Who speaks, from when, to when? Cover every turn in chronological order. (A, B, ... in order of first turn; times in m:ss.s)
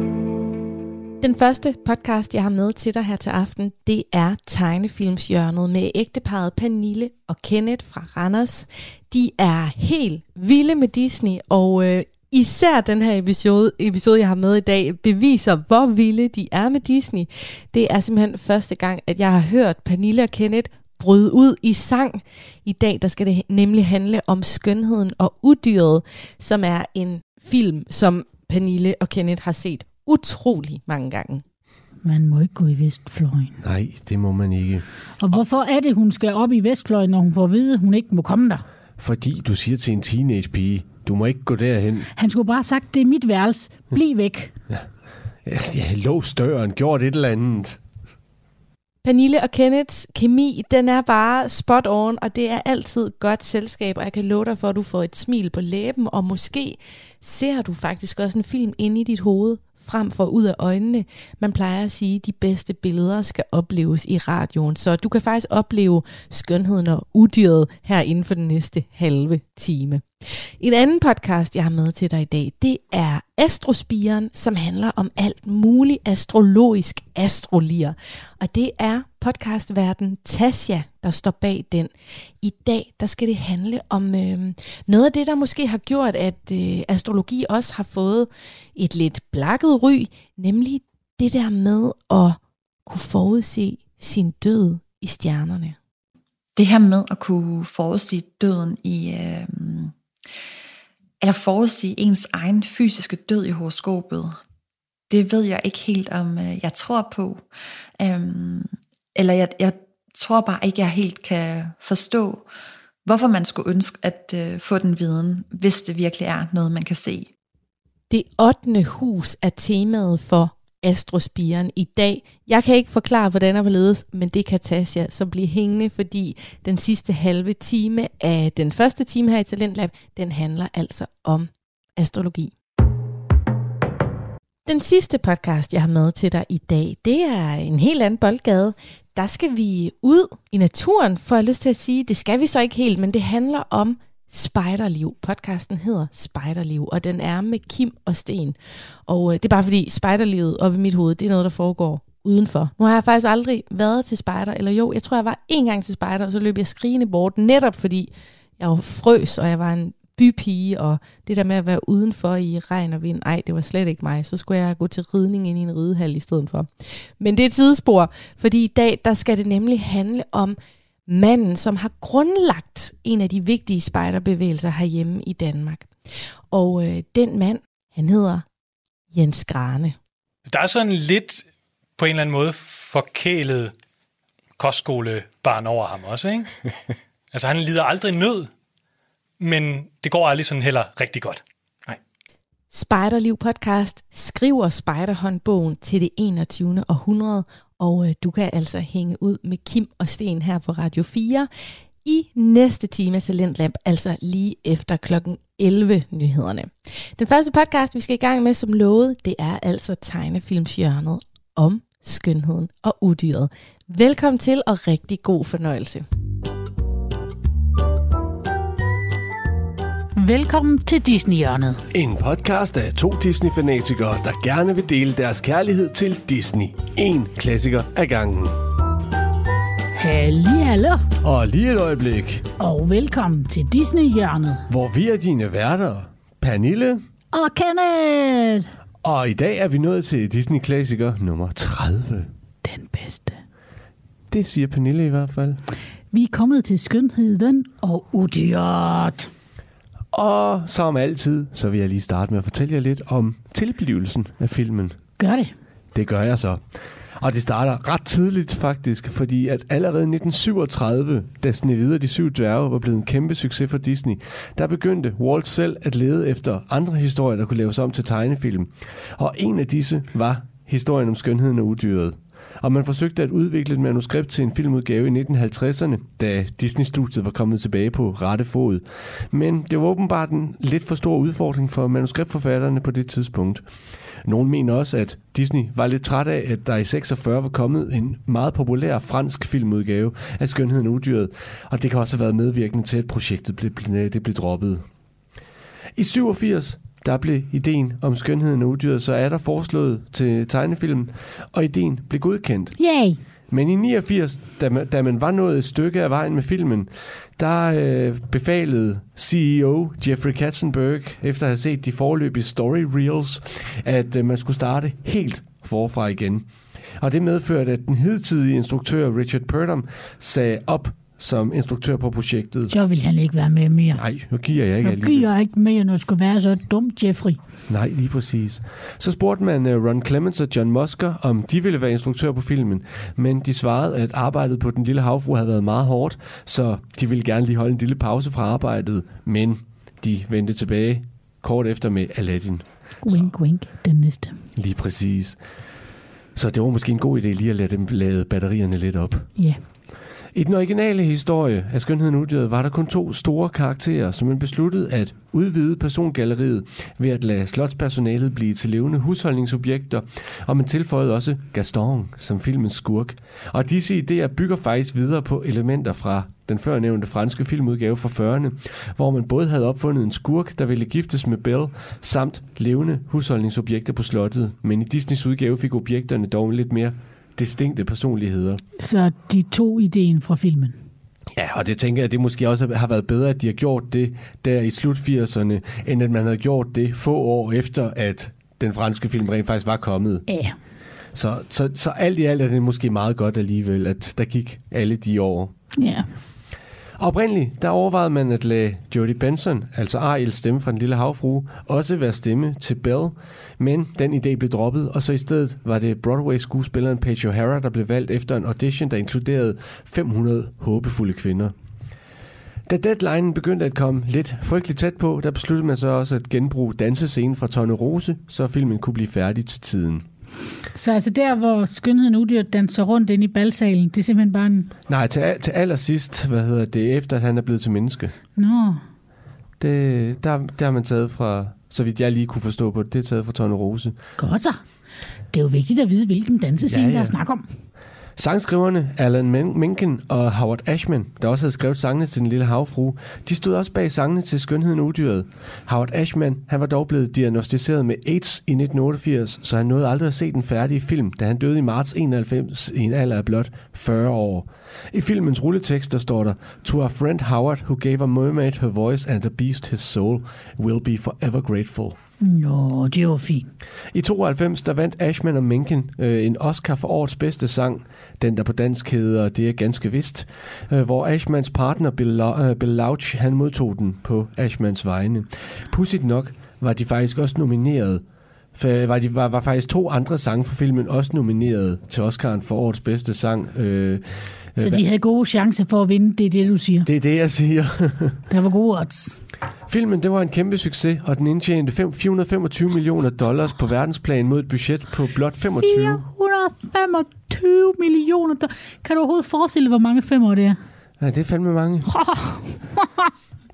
0:01.2-0:31.4 A
0:32.0-0:33.6 B
0:33.6-0:35.4 C
0:35.2-0:38.6 B
0:39.0-0:42.1 C
0:42.2-0:44.5 B
0:45.4-0:47.8 C
0:49.0-1:35.8 A
1:36.6-1:39.9 D
1:41.2-1:44.4 D
1:45.1-1:47.4 D
1:48.0-1:52.5 D
1:53.0-1:57.3 D
1:58.1-2:12.6 A
2:14.7-2:58.5 A
2:59.1-3:00.0 A
3:00.5-3:03.7 E
3:04.6-3:08.5 E
3:09.4-3:12.0 E
3:12.7-3:21.5 A
3:22.0-3:36.0 A
3:40.2-3:41.8 B
3:41.9-3:48.6 C
3:49.9-3:51.0 B
3:51.2-3:52.5 C
3:52.6-3:54.6 B
3:54.7-3:57.0 C
3:57.3-3:58.7 B
3:59.0-4:02.3 C
4:02.6-4:03.4 B
4:04.3-4:05.6 C
4:06.1-4:09.3 B
4:10.1-4:15.0 C
4:15.2-4:15.5 B
4:15.9-4:54.8 C
4:56.0-5:02.8 C
5:02.8-5:03.2 B
5:03.5-5:22.7 C
5:22.7-5:24.1 B
5:23.9-5:25.3 C
5:24.8-5:27.4 B
5:27.7-5:43.3 C
5:43.0-5:44.4 B
5:44.6-5:45.4 C
5:46.4-5:49.3 C
5:49.4-5:49.6 B
5:50.3-6:18.6 C
6:18.8-6:20.8 B
6:21.3-6:30.3 C
6:30.3-6:30.6 B
6:31.1-6:35.5 C
6:35.8-6:36.1 B
6:37.0-6:51.5 C
6:52.7-7:00.1 C
7:00.7-7:04.7 B
7:04.9-7:08.1 C
7:08.4-7:08.8 B
7:09.6-7:14.0 C
7:14.2-7:14.6 B
7:15.3-7:17.5 B
7:16.7-7:17.2 C
7:18.2-7:42.0 C
7:42.2-7:43.5 B
7:43.9-8:04.8 C
8:04.6-8:06.9 B
8:06.8-8:08.2 C
8:08.3-8:09.2 B
8:09.7-8:16.1 C
8:15.6-8:20.6 B
8:21.0-8:21.9 C
8:21.9-8:23.1 B